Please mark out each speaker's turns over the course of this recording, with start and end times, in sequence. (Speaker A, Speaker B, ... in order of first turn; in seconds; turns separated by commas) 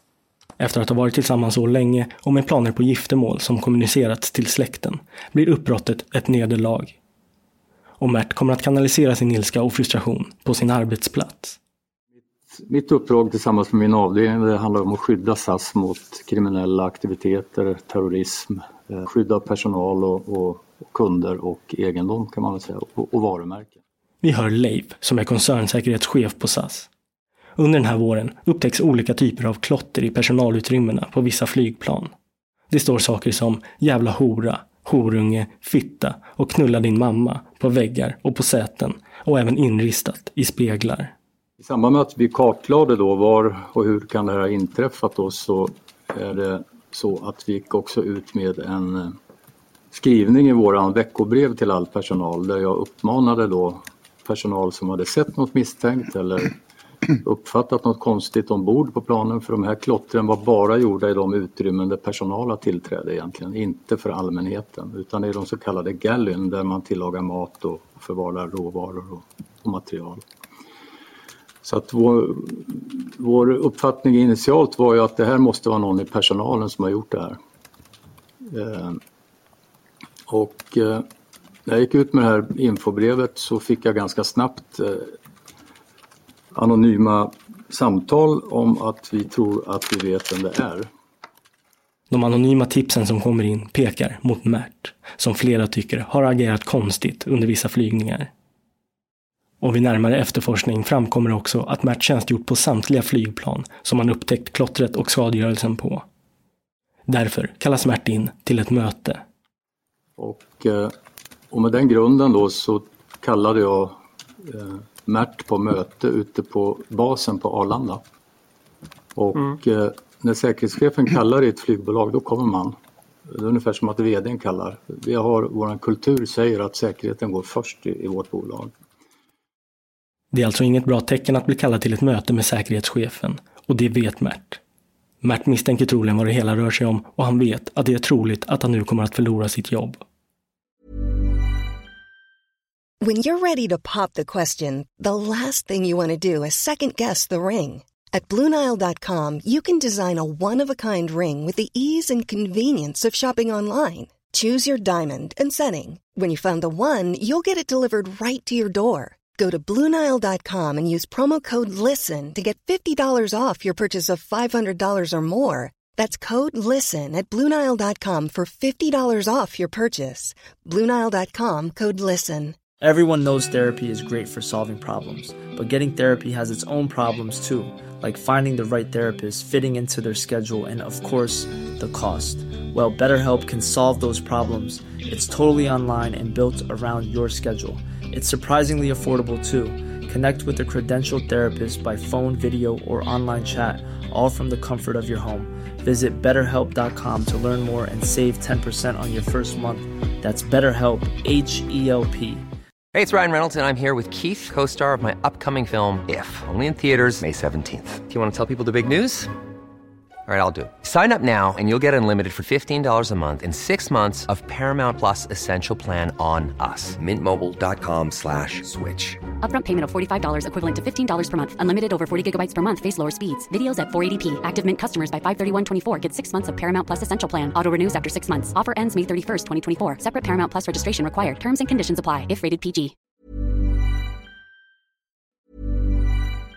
Speaker A: 0.6-7.0, Speaker A: 8.0-11.6, Speaker B: 12.5-23.8, Speaker A: 24.2-26.9, Speaker A: 27.6-32.1, Speaker A: 32.7-41.1, Speaker B: 41.6-49.1, Speaker B: 49.9-56.5, Speaker B: 57.2-70.2, Speaker B: 71.6-77.4, Speaker B: 78.5-79.0, Speaker B: 80.3-81.0, Speaker B: 81.7-85.1, Speaker B: 86.5-90.9, Speaker A: 92.1-98.3, Speaker A: 99.6-106.0, Speaker A: 107.1-109.2, Speaker B: 110.2-110.9, Speaker B: 111.5-118.0, Speaker B: 119.1-122.8, Speaker B: 123.3-128.7, Speaker A: 130.3-134.6, Speaker A: 135.2-140.0, Speaker C: 143.0-172.6, Speaker D: 172.8-202.4, Speaker E: 202.9-209.3, Speaker E: 210.3-219.2, Speaker F: 219.4-232.9